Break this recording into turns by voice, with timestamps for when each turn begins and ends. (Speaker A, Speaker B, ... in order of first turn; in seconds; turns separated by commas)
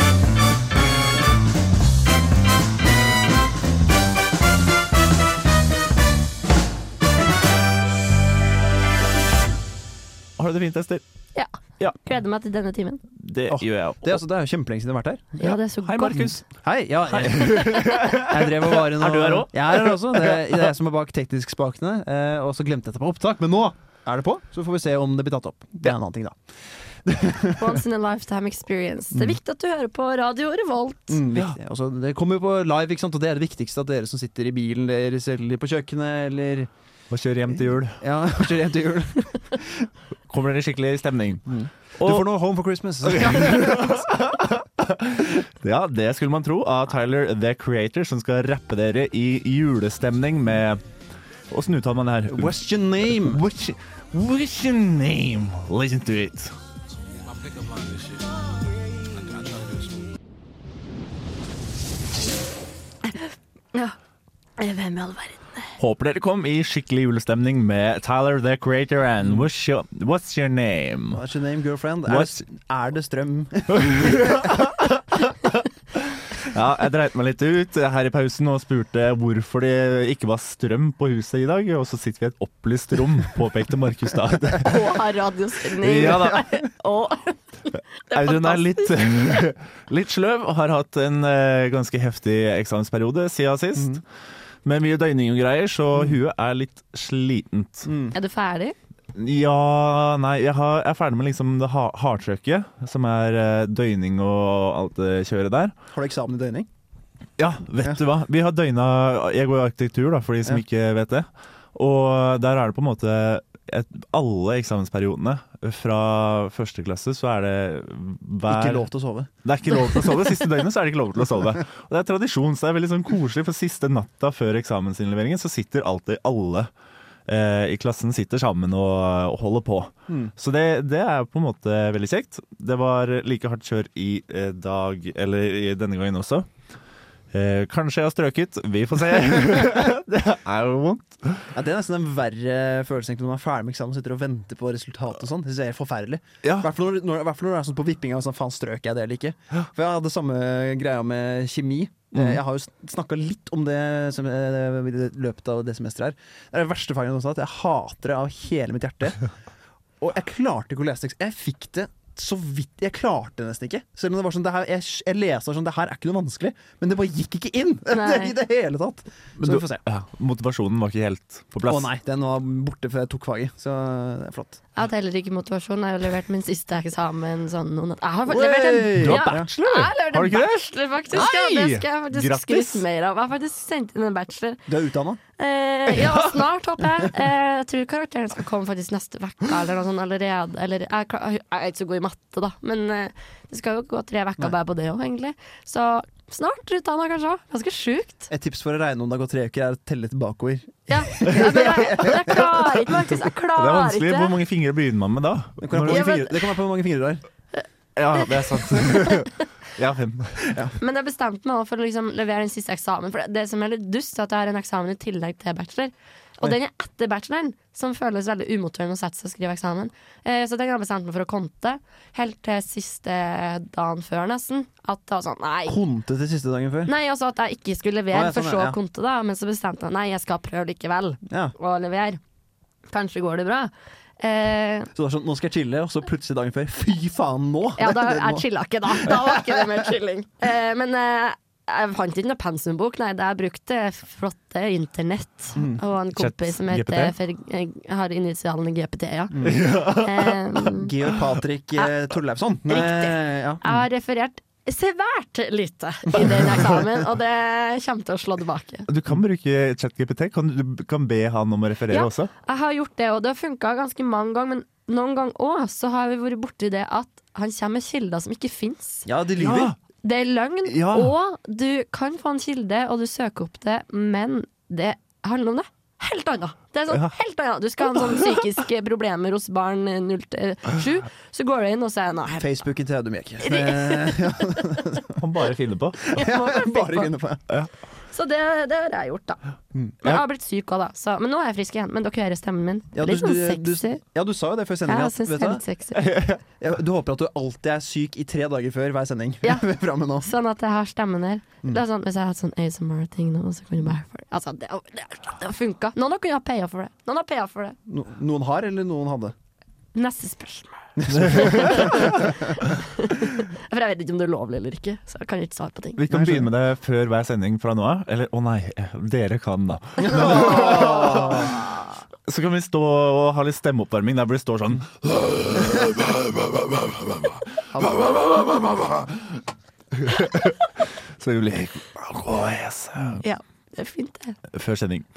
Speaker A: 10.4-11.0, Speaker B: 12.0-13.0, Speaker A: 13.2-14.2, Speaker C: 13.5-15.3, Speaker B: 15.4-16.3, Speaker A: 15.4-16.5, Speaker C: 16.5-27.8, Speaker A: 17.1-20.6, Speaker B: 27.6-31.2, Speaker C: 31.1-36.7, Speaker A: 37.1-38.0, Speaker C: 38.0-39.9, Speaker A: 40.3-42.3, Speaker C: 41.5-44.0, Speaker A: 43.0-50.8, Speaker A: 51.5-56.5, Speaker C: 52.3-53.4, Speaker B: 63.0-64.0, Speaker B: 64.6-65.8, Speaker A: 65.8-71.2, Speaker C: 71.1-74.5, Speaker A: 72.1-72.4, Speaker A: 73.7-84.9, Speaker B: 84.6-89.5, Speaker A: 85.8-86.6, Speaker A: 88.1-94.0, Speaker A: 94.6-97.9, Speaker C: 97.9-98.2, Speaker B: 98.1-98.8, Speaker A: 99.1-105.8, Speaker C: 105.9-106.7, Speaker A: 107.4-118.9, Speaker C: 118.5-119.3, Speaker A: 119.4-126.7, Speaker A: 127.3-136.5, Speaker A: 137.3-141.5, Speaker C: 141.5-159.3, Speaker A: 146.4-146.7, Speaker C: 160.0-169.8, Speaker B: 167.9-168.3, Speaker A: 169.4-171.9, Speaker C: 171.7-174.6, Speaker B: 174.8-184.7, Speaker C: 178.3-179.5, Speaker A: 178.9-182.8, Speaker C: 184.7-185.2, Speaker B: 185.4-198.3, Speaker C: 198.3-202.6, Speaker B: 200.9-204.3, Speaker A: 203.6-206.1, Speaker C: 205.6-207.2, Speaker B: 205.9-206.4, Speaker B: 207.6-209.3, Speaker A: 208.0-210.6, Speaker C: 210.5-210.7, Speaker B: 210.8-225.8, Speaker C: 225.7-226.9, Speaker B: 226.9-232.2, Speaker C: 228.1-228.8, Speaker C: 231.3-231.6, Speaker B: 232.9-234.9, Speaker C: 234.9-239.8, Speaker B: 237.8-250.9, Speaker C: 245.6-245.8, Speaker A: 246.2-247.2, Speaker C: 249.3-249.7, Speaker A: 249.4-250.5, Speaker C: 250.7-253.8, Speaker B: 252.7-258.9, Speaker A: 258.9-262.3, Speaker B: 261.9-269.1, Speaker C: 269.1-269.7, Speaker A: 269.4-269.8, Speaker B: 270.0-282.5, Speaker A: 270.6-271.1, Speaker C: 282.4-285.2, Speaker B: 283.4-285.0, Speaker A: 285.2-286.1, Speaker C: 286.1-287.4, Speaker B: 286.1-287.1, Speaker B: 288.1-289.4, Speaker B: 290.0-294.0, Speaker C: 292.9-295.6, Speaker B: 294.9-296.1, Speaker A: 295.9-296.4, Speaker C: 296.6-300.3, Speaker B: 300.2-307.8, Speaker C: 307.9-309.4, Speaker B: 309.9-316.0, Speaker C: 311.0-312.2, Speaker A: 311.4-312.1, Speaker A: 316.0-321.6, Speaker C: 316.1-316.5, Speaker C: 320.0-321.6, Speaker A: 322.3-329.4, Speaker C: 327.7-328.4, Speaker A: 329.9-333.2, Speaker B: 333.2-334.4, Speaker A: 334.5-335.1